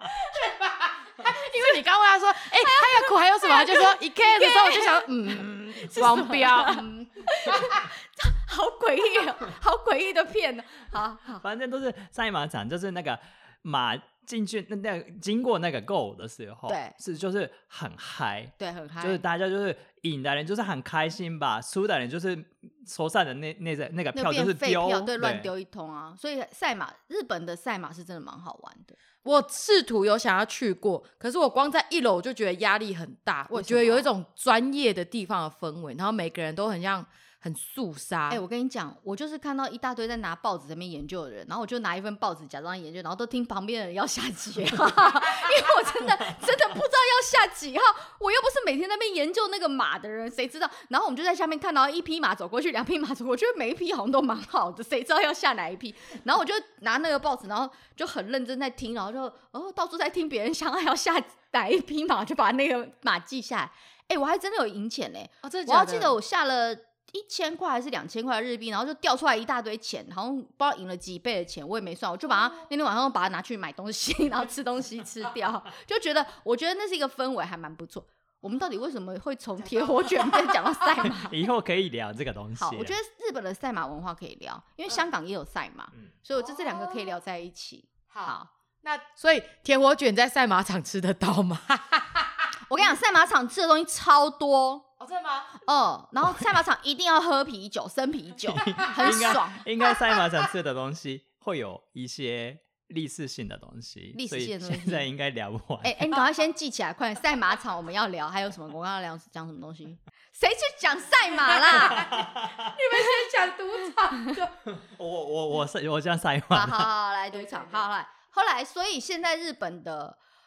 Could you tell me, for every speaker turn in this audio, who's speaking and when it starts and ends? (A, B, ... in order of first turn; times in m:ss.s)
0:00.2-0:06.9 A
0:02.5-0:05.1 B
0:05.7-0:11.4 B
0:11.4-0:25.5 C
0:16.7-0:17.0 B
0:18.6-0:19.2 B
0:24.1-0:29.0 B
0:29.2-0:38.4 A
0:33.5-0:34.1 B
0:38.3-1:21.4 B
1:05.4-1:06.2 A
1:19.7-1:20.6 A
1:21.1-1:23.0 C
1:22.6-1:28.5 B
1:26.4-1:27.2 A
1:28.1-1:32.5 A
1:32.7-1:34.9 B
1:35.0-1:35.6 A
1:35.6-1:39.6 B
1:38.5-1:46.0 C
1:44.2-1:45.1 B
1:45.8-1:52.2 B
1:51.6-1:54.6 A
1:52.0-1:52.7 C
1:54.6-1:56.9 C
1:56.5-2:00.2 B
1:57.3-1:57.9 A